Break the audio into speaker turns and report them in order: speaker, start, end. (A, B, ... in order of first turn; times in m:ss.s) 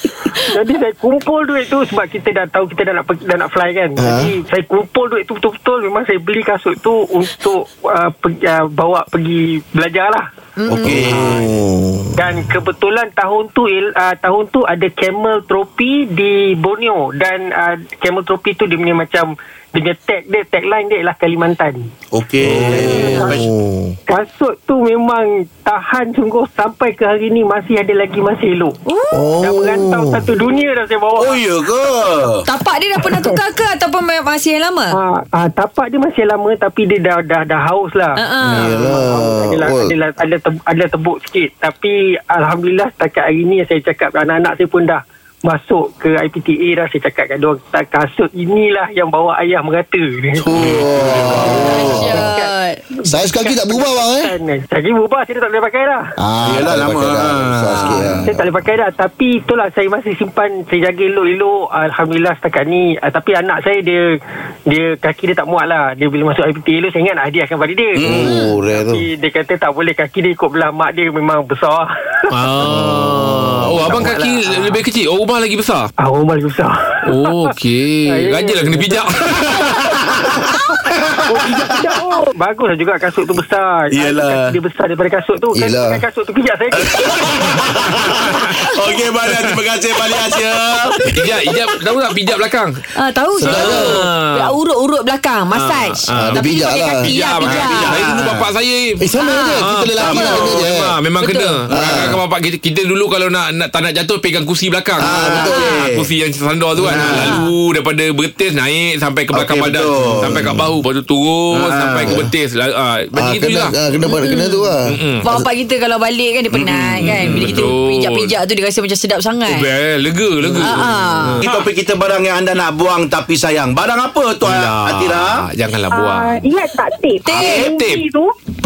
0:00.4-0:10.3 A
0:04.0-0:04.3 B
0:10.6-0:11.3 C
0:10.7-0:11.2 D
0:10.8-0:12.3 B
0:11.1-0:11.4 A
0:12.2-0:21.9 A
0:22.1-0:23.5 D
0:22.4-0:24.0 B
0:22.6-0:23.4 A
0:24.1-0:28.8 A
0:28.9-0:29.3 C
0:29.1-0:30.2 B
0:29.4-0:31.5 A
0:31.2-0:32.4 D
0:32.4-0:35.0 C
0:33.0-0:33.4 A
0:34.9-0:50.5 A
0:38.2-0:38.8 C
0:38.5-0:39.9 B
0:50.4-0:52.3 B
0:51.1-0:56.1 A
0:51.4-0:52.8 C
0:53.1-0:54.3 B
0:56.2-0:58.4 B
0:56.4-0:58.3 D
0:57.9-1:04.0 A
1:04.7-1:12.3 A
1:08.0-1:09.0 B
1:08.0-1:08.3 D
1:12.3-1:15.9 E
1:12.6-1:14.1 B
1:13.9-1:14.8 A
1:16.0-1:17.4 A
1:17.1-1:19.6 E
1:18.1-1:20.6 A
1:21.1-1:28.1 A
1:21.9-1:22.3 F
1:23.9-1:24.6 D
1:25.6-1:26.0 B
1:26.7-1:31.1 D
1:31.1-1:32.7 E
1:33.0-1:37.9 C
1:33.4-1:34.5 E
1:33.4-1:34.0 B
1:35.5-1:39.0 E
1:36.1-1:37.1 B
1:37.4-1:38.4 D
1:39.0-1:40.9 B
1:39.2-1:39.6 C
1:39.6-1:45.3 E
1:40.0-1:40.6 D
1:41.2-1:41.6 C
1:41.7-1:42.2 D
1:41.7-1:42.2 B
1:45.0-1:46.1 D
1:45.0-1:45.6 B
1:45.4-1:45.8 C
1:45.9-1:53.7 E
1:46.8-1:47.4 D
1:47.1-1:47.5 C
1:49.3-1:50.5 D
1:50.2-1:50.8 B
1:51.5-1:52.3 D
1:53.1-1:55.4 B
1:54.1-1:54.7 C
1:54.9-1:55.2 E
1:55.2-1:59.6 C
1:57.0-1:57.4 D
1:57.0-1:58.3 E
1:59.5-2:01.6 E
2:00.6-2:01.4 C
2:01.4-2:05.4 D
2:04.4-2:06.4 E
2:05.9-2:08.3 F
2:07.3-2:08.0 E
2:07.4-2:07.8 D